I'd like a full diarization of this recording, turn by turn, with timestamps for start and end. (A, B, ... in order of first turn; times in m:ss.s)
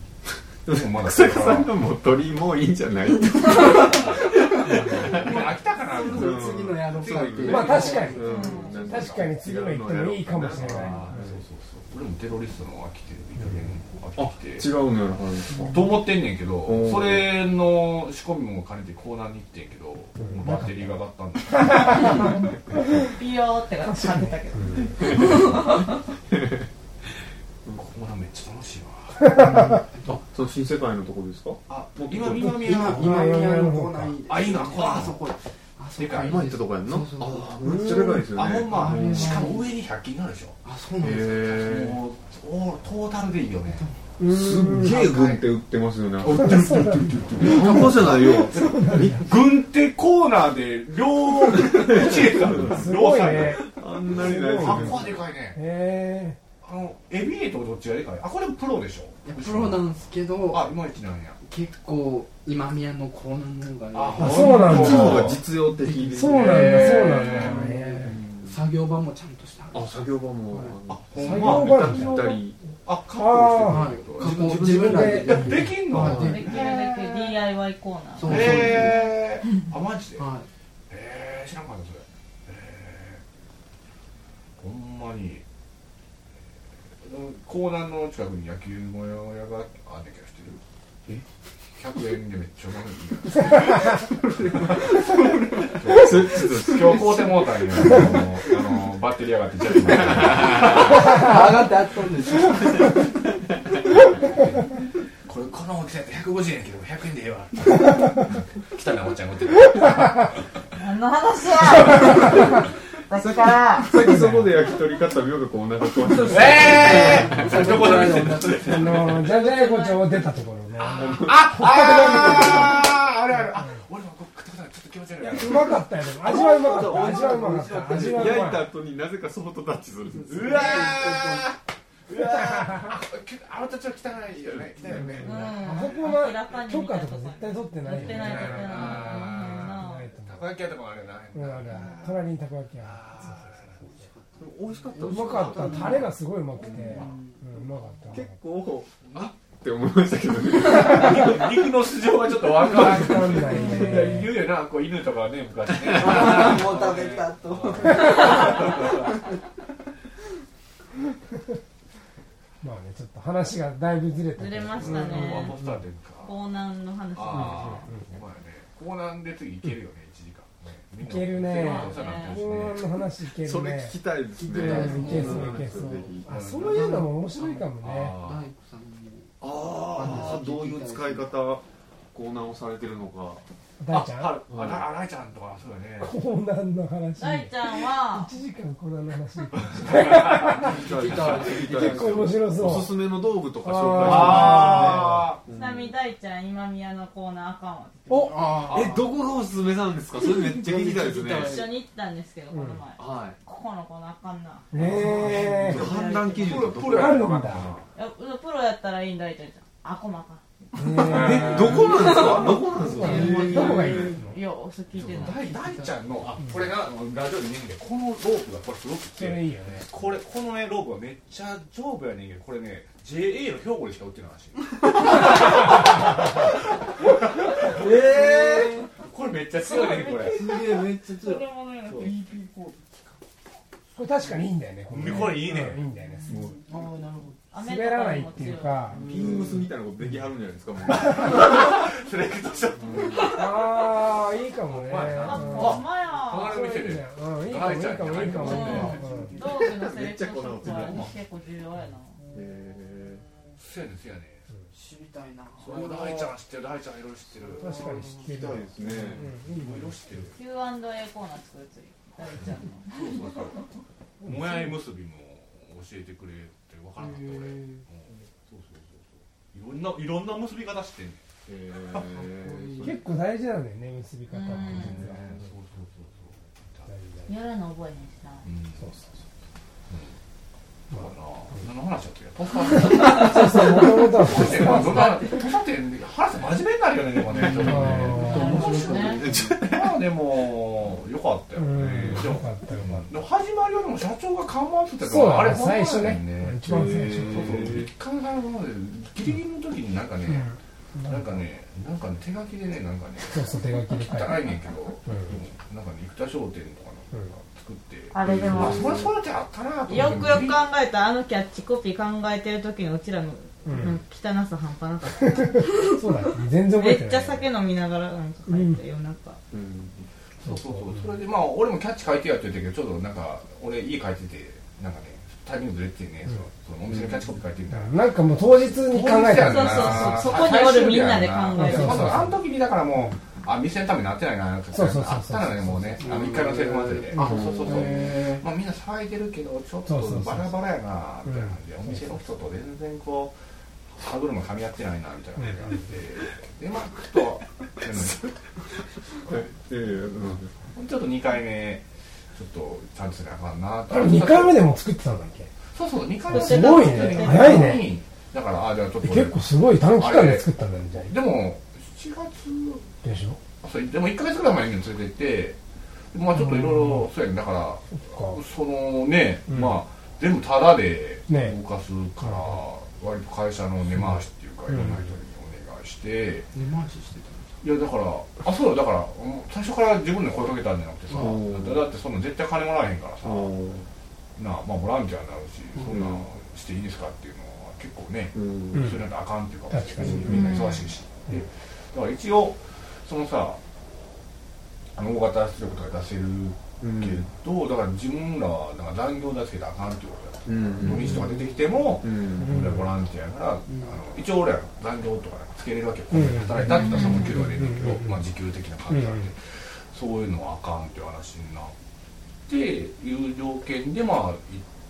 0:00.6-0:05.4 A
0:00.7-0:01.7 B
0:03.6-0:04.0 C
0:03.8-0:09.2 B
0:04.6-0:08.7 C
0:06.0-0:11.4 A
0:07.4-0:11.2 D
0:08.2-0:08.8 E
0:10.5-0:14.7 B
0:14.2-0:15.9 A
0:15.6-0:22.4 B
0:16.6-0:17.3 A
0:20.2-0:20.7 D
0:21.6-0:22.3 D
0:23.0-0:25.9 E
0:23.8-0:25.0 D
0:27.7-0:29.5 B
0:29.4-0:30.0 C
0:29.5-0:32.5 A
0:31.7-0:33.4 B
0:32.4-0:34.2 D
0:32.4-0:39.7 C
0:34.3-0:35.3 B
0:36.0-0:36.5 B
0:36.2-0:39.4 A
0:37.6-0:38.2 D
0:38.1-0:40.6 B
0:40.6-0:41.6 C
0:41.0-0:42.0 A
0:41.3-0:43.8 B
0:43.7-0:44.0 C
0:44.2-0:45.0 D
0:44.3-0:49.3 A
0:44.6-0:45.5 B
0:46.2-0:55.6 B
0:46.3-0:49.2 D
0:51.8-0:52.9 A
0:52.7-0:56.4 D
0:53.4-0:55.2 A
0:56.6-0:59.8 B
0:59.2-1:00.7 C
1:00.5-1:01.4 B
1:01.4-1:10.8 C
1:03.9-1:05.4 B
1:04.2-1:05.3 D
1:04.2-1:07.4 A
1:06.1-1:08.2 D
1:06.4-1:07.6 B
1:08.0-1:08.5 A
1:09.7-1:12.6 A
1:10.9-1:17.4 B
1:11.1-1:12.3 D
1:13.1-1:13.9 D
1:13.7-1:16.6 C
1:14.2-1:16.4 A
1:14.5-1:15.8 D
1:16.1-1:18.7 E
1:18.2-1:19.0 C
1:18.2-1:20.3 B
1:20.2-1:20.5 C
1:20.9-1:23.2 B
1:24.6-1:25.4 B
1:27.0-1:30.6 B
1:31.8-1:41.4 B
1:33.8-1:38.2 C
1:35.8-1:38.3 A
1:40.1-1:40.9 A
1:40.4-1:43.1 C
1:44.2-1:44.7 B
1:45.2-1:50.3 B
1:50.7-1:53.9 E
1:53.2-1:58.0 A
1:54.0-1:54.5 D
1:56.0-1:59.0 C
1:56.2-1:59.2 B
1:58.6-2:02.9 D
1:59.1-2:00.3 E
2:01.0-2:05.8 B
2:02.3-2:02.8 C
2:05.2-2:08.6 D
2:06.2-2:08.5 C
2:06.2-2:10.8 A
2:10.1-2:11.5 C
2:10.3-2:15.9 B
2:12.1-2:13.0 D
2:14.5-2:15.4 A
2:15.2-2:20.1 E
2:15.6-2:20.4 D
2:18.0-2:22.2 B
2:21.3-2:24.0 D
2:22.8-2:23.9 B
2:23.8-2:26.1 C
2:24.4-2:27.1 A
2:25.0-2:28.4 D
2:26.6-2:28.0 C
2:26.7-2:27.1 B
2:28.1-2:31.5 A
2:29.0-2:29.3 B
2:30.6-2:39.3 B
2:32.6-2:34.3 D
2:35.9-2:39.4 C
2:42.6-2:45.8 D
2:44.4-2:45.6 E
2:44.8-2:46.3 B
2:46.2-2:47.9 E
2:47.1-2:52.8 B
2:47.3-2:48.0 D
2:51.0-2:58.2 D
2:51.5-2:52.5 E
2:53.4-2:56.3 A
2:54.4-3:01.3 C
2:56.3-2:57.0 B
2:57.8-2:58.5 B
2:59.4-3:03.4 A
3:03.8-3:04.4 D
3:03.9-3:06.1 B
3:04.5-3:04.8 A
3:06.0-3:10.8 D
3:07.2-3:08.3 E
3:09.6-3:11.5 B
3:10.6-3:15.9 A
3:10.6-3:12.4 C
3:11.7-3:13.0 D
3:13.6-3:15.2 D
3:14.0-3:15.4 B
3:15.5-3:18.7 E
3:18.1-3:18.3 D
3:18.3-3:19.1 C
3:18.7-3:21.6 A
3:20.5-3:21.7 C
3:21.3-3:26.9 E
3:22.5-3:22.8 D
3:23.0-3:23.4 A
3:24.7-3:25.8 D
3:24.8-3:25.8 C
3:25.0-3:27.8 A
3:25.6-3:27.9 B
3:26.9-3:27.7 D
3:27.9-3:35.5 E
3:30.8-3:34.4 D
3:31.0-3:33.3 B
3:31.0-3:34.0 A
3:31.5-3:34.2 C
3:34.9-3:50.4 B
3:35.0-3:36.3 C
3:39.2-3:39.9 D
3:47.7-3:48.9 C
3:49.6-3:52.2 E
3:50.2-3:53.0 C
3:54.0-3:56.4 D
3:54.9-3:55.8 B
3:56.3-3:56.6 A
3:56.3-3:57.5 C
3:57.5-3:59.0 E
3:57.6-3:59.1 D
3:58.9-3:59.7 C
3:59.0-4:01.7 A
4:01.0-4:03.4 B
4:02.8-4:03.2 A
4:03.3-4:09.3 D
4:04.7-4:09.0 B
4:05.0-4:06.6 E
4:08.4-4:12.2 E
4:08.5-4:09.6 C
4:09.3-4:11.1 A
4:10.6-4:11.1 B
4:12.2-4:13.2 C
4:12.3-4:13.2 A
4:13.6-4:14.5 B
4:14.7-4:16.3 C
4:15.6-4:17.8 B
4:17.4-4:18.3 C
4:17.6-4:20.0 D
4:18.2-4:19.3 A
4:18.8-4:20.4 B
4:20.3-4:23.2 E
4:22.8-4:23.6 B
4:24.2-4:31.2 B
4:24.2-4:24.6 D
4:27.0-4:27.8 C
4:31.5-4:33.0 A
4:32.0-4:33.1 C
4:32.8-4:35.4 D
4:34.3-4:35.1 E
4:34.5-4:36.9 B
4:36.9-4:37.3 D
4:37.3-4:38.5 E
4:38.4-4:38.9 B
4:38.8-4:39.1 D
4:39.9-4:40.2 B
4:40.9-5:00.5 B
4:42.7-4:45.2 D
4:42.9-4:43.4 E
4:44.6-4:45.4 E
4:47.4-4:49.6 C
4:47.4-4:48.1 A
4:47.6-4:48.6 D
4:48.1-4:49.3 E
4:49.1-4:50.0 A
4:51.6-4:53.1 D
4:55.0-4:57.7 D
4:56.6-4:57.9 A
5:00.3-5:01.3 D
5:01.1-5:10.6 B
5:03.3-5:04.4 D
5:05.0-5:05.4 D
5:08.1-5:09.0 E
5:08.2-5:09.0 A
5:09.9-5:16.0 E
5:13.6-5:14.0 D
5:15.1-5:17.5 D
5:16.7-5:19.4 E
5:18.5-5:18.8 D
5:19.5-5:20.1 A
5:20.4-5:28.0 B
5:20.4-5:21.2 D
5:26.9-5:27.2 A
5:27.7-5:30.5 D
5:28.8-5:43.3 B
5:29.4-5:32.2 E
5:31.6-5:32.4 D
5:34.7-5:36.0 D
5:36.0-5:38.4 C
5:37.1-5:38.1 A
5:39.8-5:40.5 D
5:41.2-5:42.0 D
5:44.0-5:48.3 B
5:45.4-5:45.8 D
5:49.2-5:50.5 A
5:50.7-5:54.6 B
5:53.9-5:55.5 D
5:55.7-6:00.5 B
5:56.3-5:57.9 E
5:56.3-5:57.9 D
5:59.0-6:01.1 D
6:01.0-6:02.9 B
6:03.0-6:03.4 D
6:03.6-6:05.6 B
6:06.1-6:16.5 B
6:06.4-6:07.1 D
6:07.9-6:08.4 D
6:09.5-6:09.8 D
6:11.3-6:11.6 D
6:12.2-6:12.6 D
6:14.7-6:15.1 D
6:16.5-6:17.6 C
6:17.6-6:23.5 B
6:21.1-6:21.4 C
6:21.1-6:21.8 A
6:23.2-6:23.9 A
6:24.4-6:33.6 B
6:25.9-6:26.3 A
6:28.3-6:28.9 A
6:28.7-6:29.0 D
6:29.7-6:30.5 D
6:30.0-6:30.5 A
6:30.3-6:30.9 E
6:35.0-6:51.7 B
6:36.8-6:37.2 A
6:40.4-6:41.4 A
6:42.0-6:42.7 A
6:42.4-6:42.8 D
6:43.7-6:44.0 C
6:46.1-6:48.2 D
6:46.7-6:47.4 E
6:48.9-6:49.3 D
6:52.5-6:54.6 B